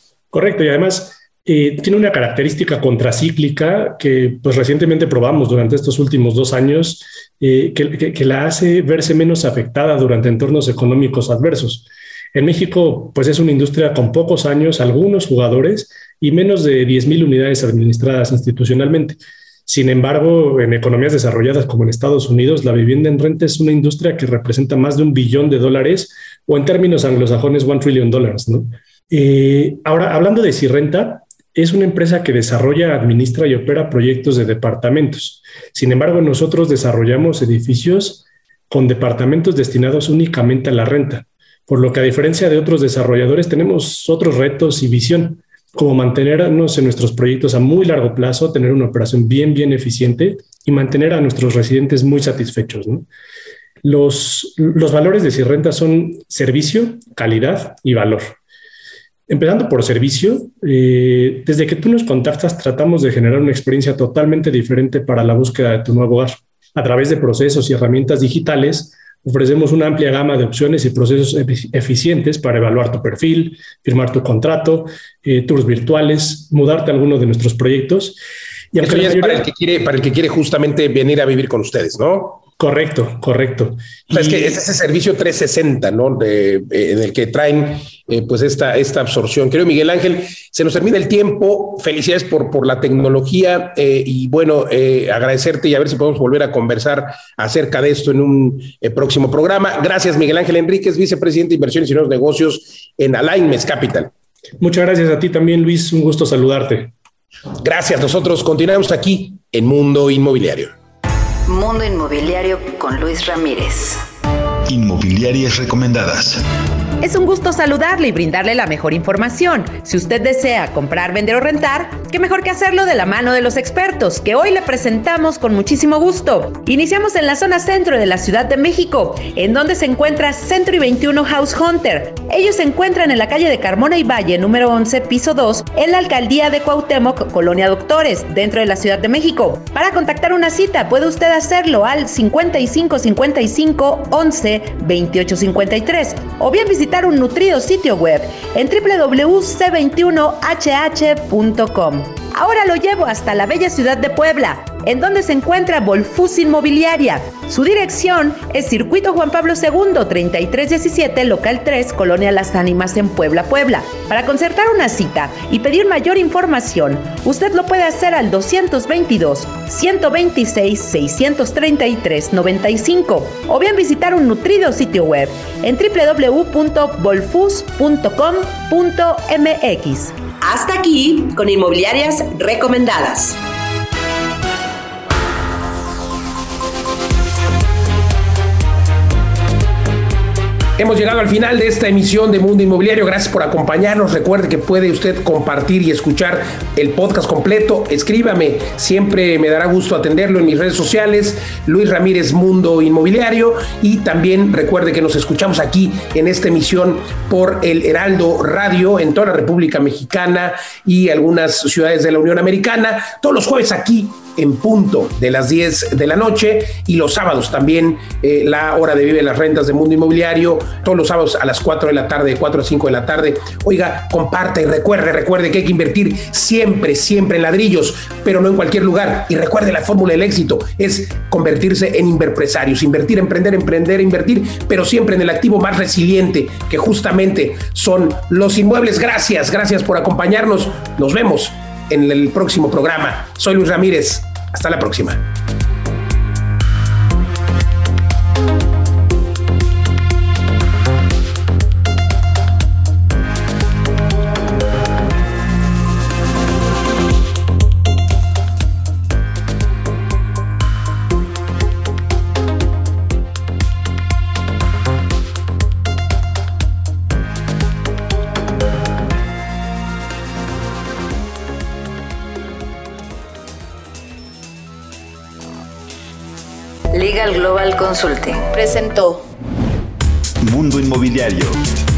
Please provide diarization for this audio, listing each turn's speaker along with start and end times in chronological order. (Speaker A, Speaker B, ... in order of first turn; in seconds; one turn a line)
Speaker A: 0.3-53.1
Speaker A: 53.8-58.4
Speaker A: 59.3-78.2
Speaker A: 78.7-79.5
Speaker B: 78.8-82.4
Speaker A: 82.6-84.6
Speaker B: 84.1-104.1
Speaker A: 104.6-106.9
Speaker B: 107.6-110.7
Speaker C: 111.5-114.0
Speaker D: 114.7-116.4
Speaker E: 117.0-183.4
Speaker B: 190.8-245.2
Speaker C: 276.9-279.2
Speaker D: 280.4-281.6